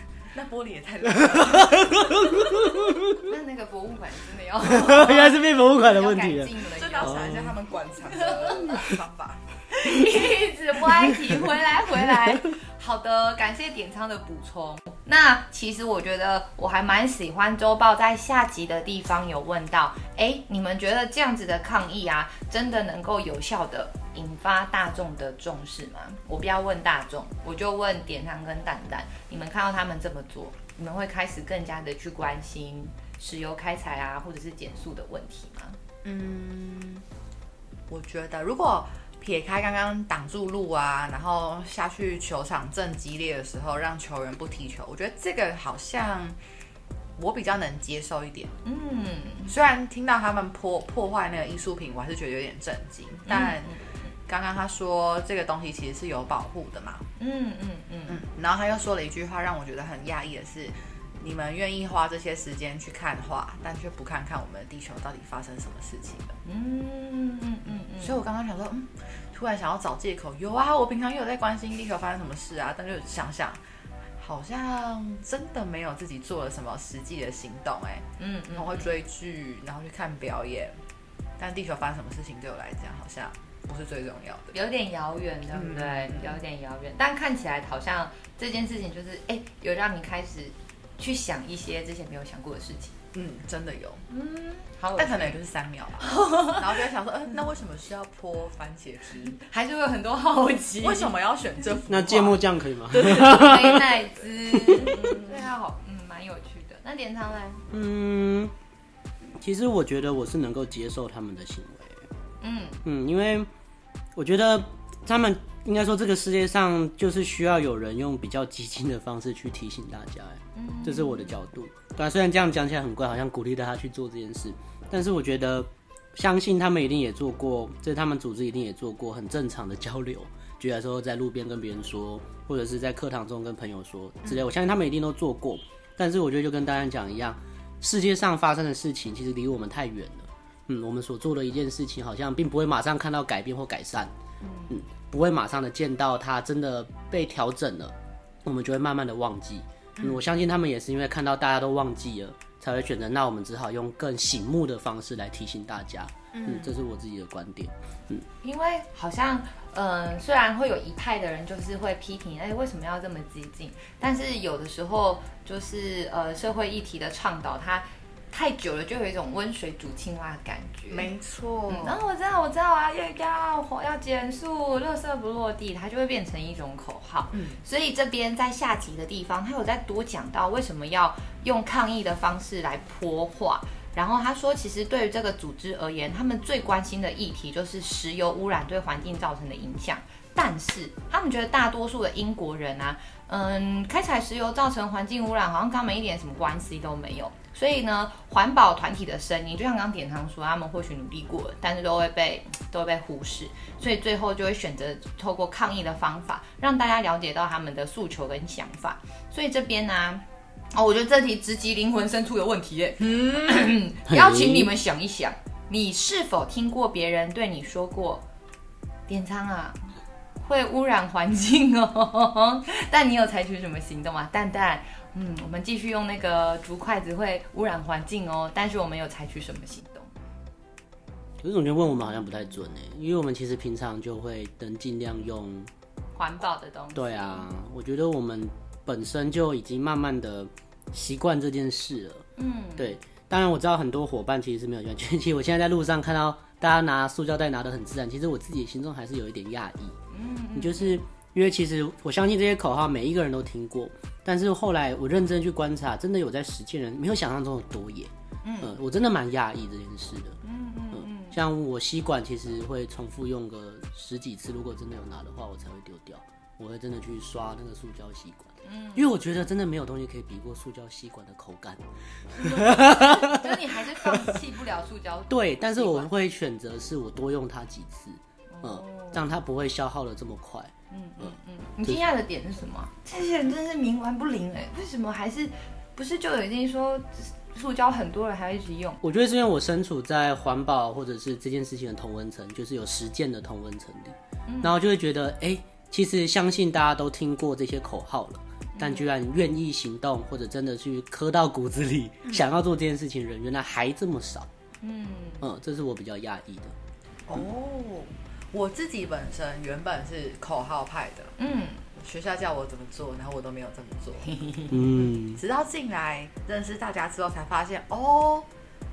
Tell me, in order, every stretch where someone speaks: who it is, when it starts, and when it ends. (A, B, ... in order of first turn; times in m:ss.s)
0:00.3-0:02.7 A
0:01.1-0:03.2 B
0:03.2-0:07.3 C
0:04.6-0:07.6 B
0:06.7-0:09.4 A
0:08.1-0:08.9 C
0:09.7-0:35.8 C
0:36.0-0:37.0 A
0:37.9-0:46.4 A
0:47.2-0:48.5 A
0:48.6-0:49.5 C
0:49.5-0:53.7 A
0:53.3-0:54.0 C
0:54.3-0:57.1 A
0:57.2-0:58.2 C
0:58.1-1:06.4 A
1:06.4-1:08.2 C
1:07.8-1:13.6 A
1:14.2-1:20.8 A
1:18.2-1:18.9 C
1:21.4-1:24.5 A
1:24.5-1:32.9 C
1:25.5-1:26.4 A
1:33.1-1:34.0 A
1:34.1-1:35.4 C
1:35.0-1:39.4 A
1:36.0-1:36.6 C
1:39.4-1:41.1 C
1:40.8-1:44.2 A
1:41.9-1:43.8 B
1:43.2-1:47.6 C
1:44.5-1:45.0 B
1:47.7-1:48.5 B
1:49.4-1:52.0 B
1:52.4-1:52.8 C
1:52.8-1:53.5 B
1:54.2-2:24.1 B
2:00.5-2:01.4 C
2:24.7-2:38.2 B
2:30.0-2:30.2 A
2:36.3-2:36.7 A
2:38.4-2:51.1 C
2:50.9-2:52.0 A
2:51.7-3:30.2 C
2:57.3-2:57.6 A
3:30.7-3:38.2 C
3:33.0-3:33.7 A
3:34.1-3:34.7 B
3:39.1-3:39.8 C
3:40.4-3:50.1 C
3:51.4-3:55.7 B
3:56.1-3:57.5 C
3:56.9-4:02.2 B
4:02.4-4:03.0 C
4:02.8-4:10.0 B
4:10.1-4:11.0 C
4:10.5-4:20.4 B
4:18.4-4:18.8 C
4:20.4-4:21.4 C
4:20.9-4:31.8 B
4:28.6-4:29.1 C
4:32.4-4:36.1 C
4:32.4-4:34.3 B
4:35.3-4:41.3 B
4:38.5-4:39.2 C
4:40.9-4:49.0 C
4:49.0-5:04.5 B
4:54.5-4:54.8 C
4:58.8-4:59.1 C
5:04.8-5:05.4 C
5:05.4-5:06.7 B
5:07.3-5:11.3 A
5:11.4-5:11.8 C
5:12.0-5:14.3 A
5:14.4-5:14.6 C
5:14.7-5:15.4 B
5:15.3-5:18.5 A